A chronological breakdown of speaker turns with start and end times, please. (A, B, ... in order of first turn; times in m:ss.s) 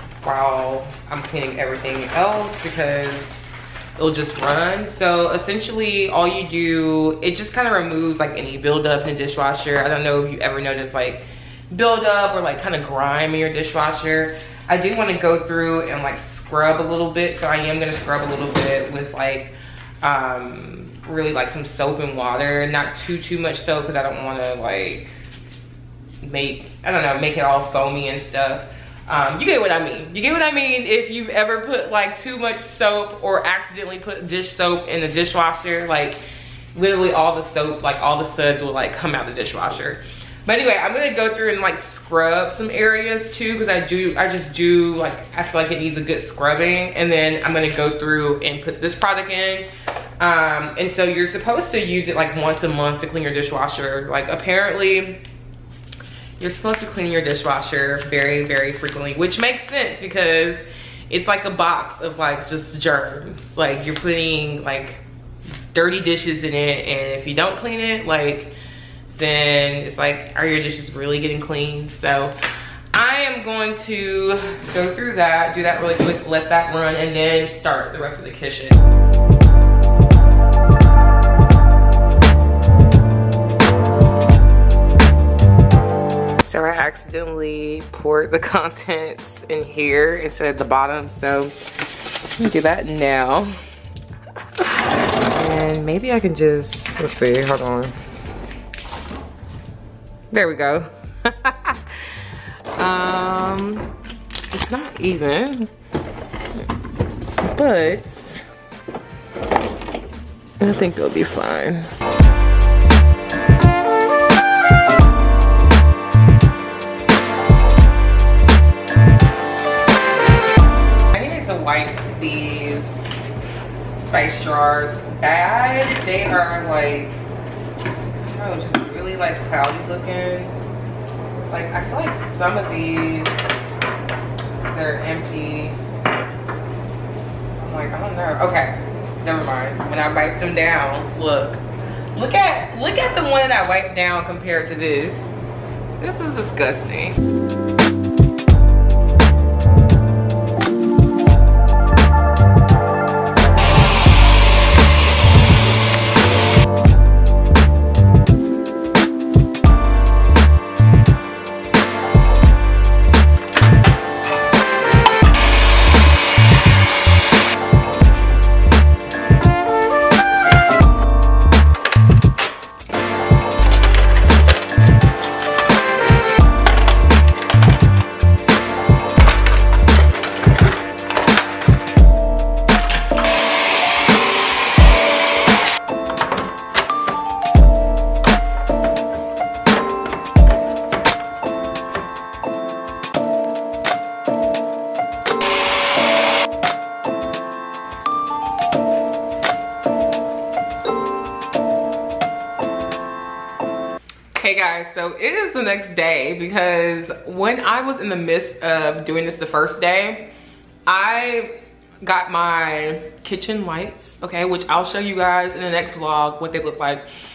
0:00.2-0:25.1 A
0:26.2-0:36.2 A
0:36.7-0:49.7 A
0:50.2-0:55.2 A
0:56.4-1:05.0 A
1:05.7-1:08.5 A
1:09.1-1:12.4 A
1:12.9-1:18.8 A
1:26.4-1:31.5 A
1:32.4-1:33.5 A
1:34.5-1:38.0 A
1:40.3-1:43.9 A
1:44.5-1:45.7 A
1:47.5-1:48.4 A
1:50.6-1:51.9 A
2:01.1-2:03.2 A
2:03.9-2:07.2 A
2:08.2-2:10.6 A
2:11.5-2:13.7 A
2:14.7-2:15.8 A
2:17.6-2:21.6 A
2:22.1-2:25.3 A
2:26.0-2:27.2 A
3:24.3-3:30.3 A
3:30.8-3:37.0 A